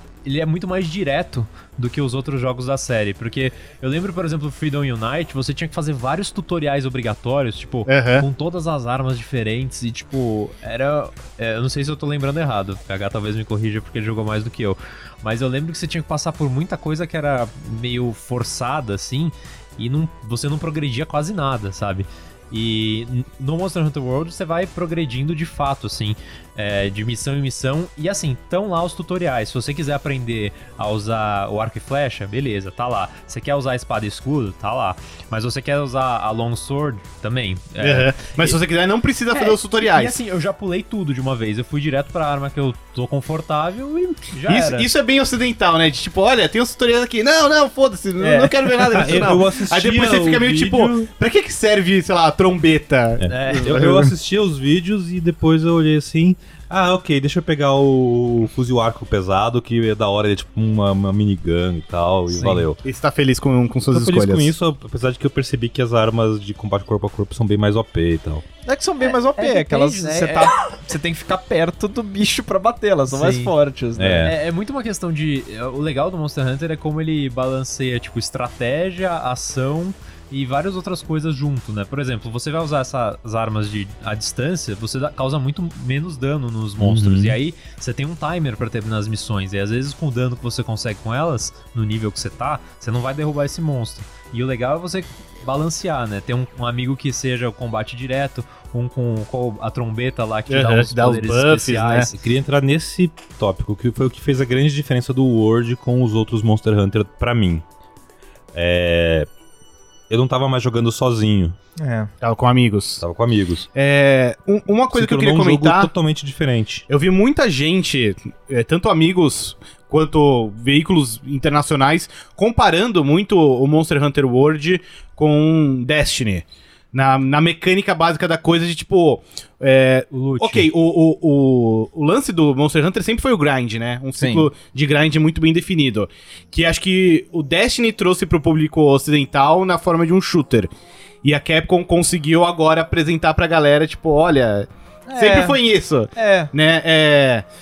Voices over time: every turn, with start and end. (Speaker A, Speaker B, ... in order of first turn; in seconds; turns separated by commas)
Speaker A: 0.2-38.5, Speaker B: 7.9-8.3, Speaker B: 37.8-40.2, Speaker A: 39.3-44.9, Speaker B: 44.5-54.1, Speaker A: 48.2-48.5, Speaker C: 48.9-51.1, Speaker C: 53.2-62.8, Speaker A: 53.3-53.9, Speaker A: 62.3-62.6, Speaker B: 62.8-64.5, Speaker C: 63.9-68.4, Speaker D: 68.7-74.3, Speaker A: 69.0-70.5, Speaker A: 73.1-73.5, Speaker C: 74.0-74.3, Speaker A: 74.2-102.2, Speaker C: 86.8-87.4, Speaker B: 100.5-102.1, Speaker C: 102.1-107.6, Speaker C: 108.5-109.3, Speaker C: 110.1-111.5, Speaker D: 111.8-112.1, Speaker B: 112.2-113.0, Speaker C: 113.0-113.7, Speaker B: 113.7-115.9, Speaker C: 114.9-116.9, Speaker B: 116.9-140.7, Speaker A: 130.1-130.7, Speaker D: 134.2-134.5, Speaker B: 141.2-147.4, Speaker D: 145.1-145.6, Speaker D: 146.2-146.5